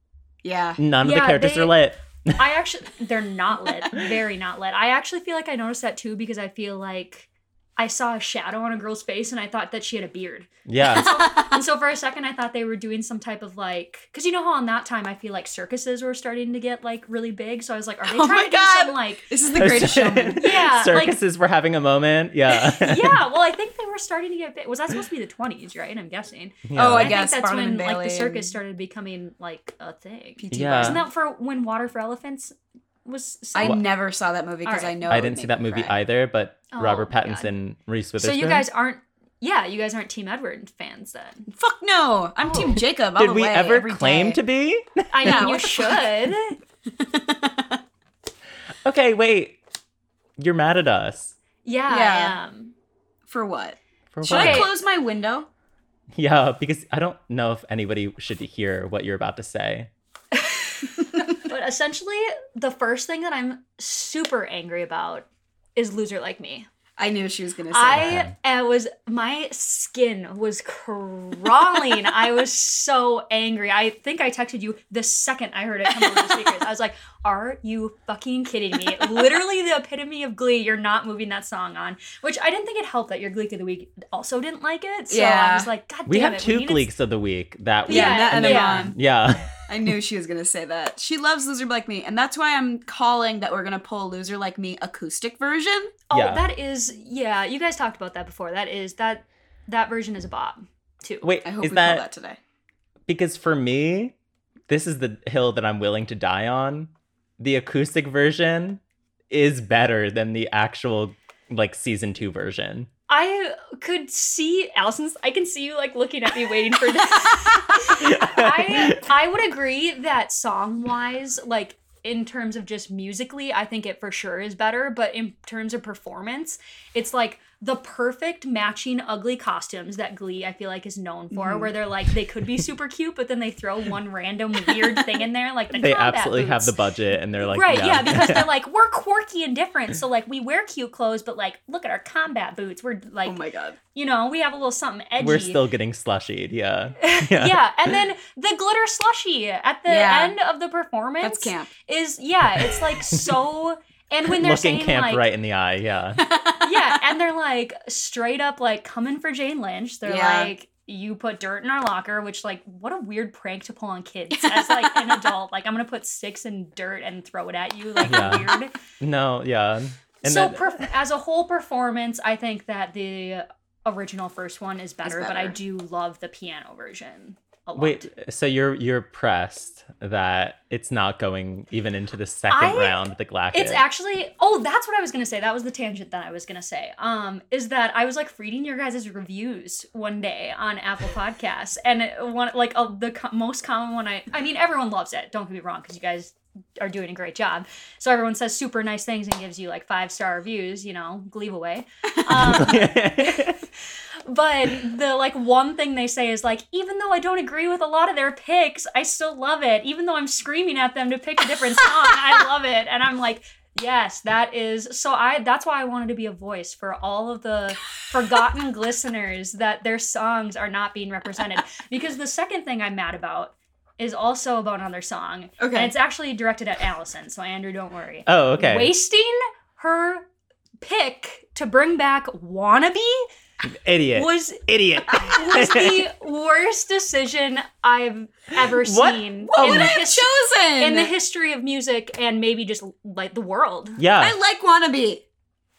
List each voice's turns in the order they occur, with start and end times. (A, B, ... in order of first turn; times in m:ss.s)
0:00.4-0:00.8 A
0:00.8-0:02.4 B
0:01.0-0:01.8 C
0:02.4-0:19.3 C
0:10.6-0:11.1 B
0:11.0-0:11.4 A
0:18.0-0:20.4 A
0:19.5-0:23.2 B
0:20.4-0:21.2 C
0:22.5-0:33.8 C
0:26.6-0:27.2 B
0:26.7-0:28.5 A
0:30.4-0:31.0 A
0:30.5-0:31.0 B
0:33.5-0:35.9 A
0:34.6-0:35.0 C
0:35.1-0:38.6 B
0:36.7-0:37.5 C
0:38.2-0:41.5 C
0:41.5-0:44.4 A
0:43.2-0:45.5 B
0:45.1-0:46.6 C
0:45.2-0:46.2 A
0:47.0-0:47.8 A
0:48.8-0:49.6 B
0:50.4-0:51.3 B
0:51.6-0:52.7 C
0:51.9-0:52.4 A
0:53.3-0:55.5 A
0:54.1-0:54.7 B
0:54.3-0:54.7 C
0:56.1-0:59.9 B
1:00.3-1:00.9 C
1:01.4-1:06.7 C
1:07.0-1:08.1 A
1:07.7-1:26.9 C
1:07.9-1:08.3 B
1:16.0-1:16.5 A
1:25.1-1:25.7 A
1:26.0-1:29.5 B
1:27.8-1:28.9 C
1:27.9-1:29.0 A
1:29.6-1:36.0 A
1:36.1-1:41.3 C
1:36.1-1:36.4 B
1:41.2-1:42.0 B
1:41.4-1:42.4 A
1:43.1-1:44.1 B
1:44.7-1:52.9 B
1:53.1-2:16.7 C
1:57.8-1:59.0 B
2:11.3-2:11.7 A
2:15.7-2:18.5 B
2:17.5-2:23.4 C
2:23.2-2:23.8 A
2:23.9-2:25.6 C
2:25.2-2:27.9 B
2:27.0-2:35.2 C
2:29.9-2:30.4 A
2:31.2-2:31.7 A
2:34.2-2:36.2 B
2:36.2-2:36.9 A
2:36.6-2:48.7 C
2:40.0-2:40.5 A
2:44.3-2:45.3 A
2:48.0-2:50.9 B
2:50.2-2:58.1 C
2:55.0-2:55.6 A
2:57.8-3:03.8 B
3:02.5-3:23.6 C
3:22.3-3:23.6 B
3:24.2-3:50.3 C
3:45.6-3:45.9 A
3:48.3-3:48.9 B
3:50.8-3:53.3 C
3:53.7-3:56.1 B
3:54.1-3:54.6 C
3:55.1-4:00.3 C
3:58.6-3:59.9 B
3:59.5-4:01.1 A
4:00.8-4:04.0 C
4:04.0-4:04.4 B
4:04.2-4:05.2 A